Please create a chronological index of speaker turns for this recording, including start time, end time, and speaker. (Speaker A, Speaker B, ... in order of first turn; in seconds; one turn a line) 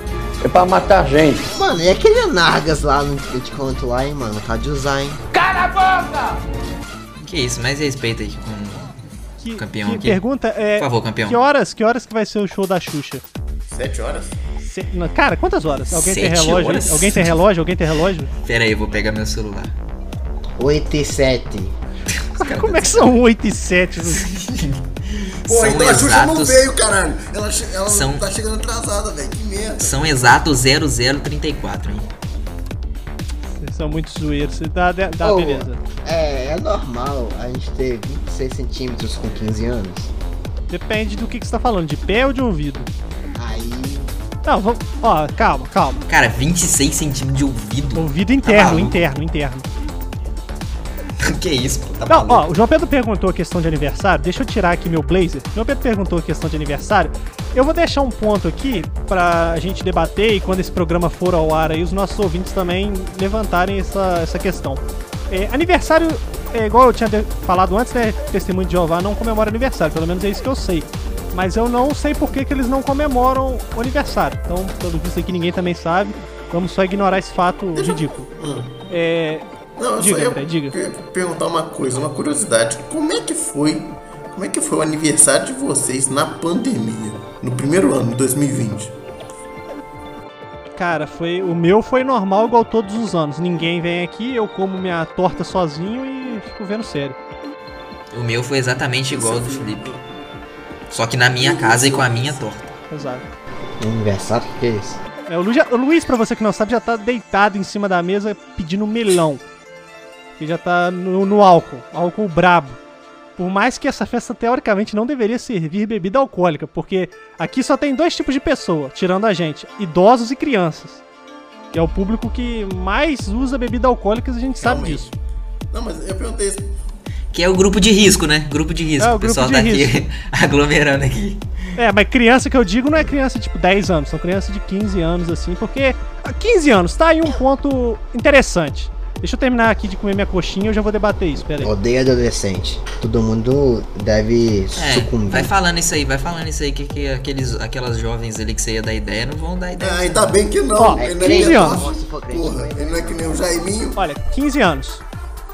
Speaker A: 0.4-1.5
Speaker B: 1.5-5.2
Speaker A: 5.3-6.4
Speaker C: 7.2-8.9
Speaker D: 9.4-13.2
Speaker C: 9.6-10.2
Speaker C: 10.8-11.4
Speaker E: 13.7-14.4
Speaker D: 14.6-18.3
Speaker C: 15.9-17.4
Speaker C: 18.4-19.8
Speaker B: 20.6-21.7
Speaker C: 22.2-23.1
Speaker D: 22.4-24.3
Speaker C: 24.1-26.6
Speaker E: 25.5-30.4
Speaker C: 27.9-28.3
Speaker C: 29.8-32.1
Speaker D: 33.6-35.8
Speaker B: 35.2-40.1
Speaker D: 40.7-42.9
Speaker B: 43.4-44.1
Speaker D: 44.5-46.0
Speaker C: 46.1-49.0
Speaker D: 48.0-49.7
Speaker C: 51.2-52.5
Speaker D: 52.1-78.3
Speaker E: 77.8-78.8
Speaker D: 78.9-79.5
Speaker E: 79.8-89.0
Speaker D: 80.0-80.8
Speaker D: 90.8-97.2
Speaker C: 98.1-99.9
Speaker E: 99.1-100.0
Speaker C: 100.9-102.7
Speaker E: 101.2-102.5
Speaker D: 102.9-103.3
Speaker B: 103.8-105.0
Speaker D: 105.3-109.4
Speaker D: 110.4-112.8
Speaker D: 113.4-121.0
Speaker D: 121.7-125.1
Speaker E: 124.6-125.1
Speaker E: 125.7-126.8
Speaker C: 127.3-131.5
Speaker D: 129.0-130.0
Speaker D: 131.8-141.7
Speaker B: 141.6-145.5
Speaker C: 144.8-150.4
Speaker E: 149.8-154.0
Speaker D: 150.8-151.8
Speaker B: 150.9-153.7
Speaker D: 154.0-155.0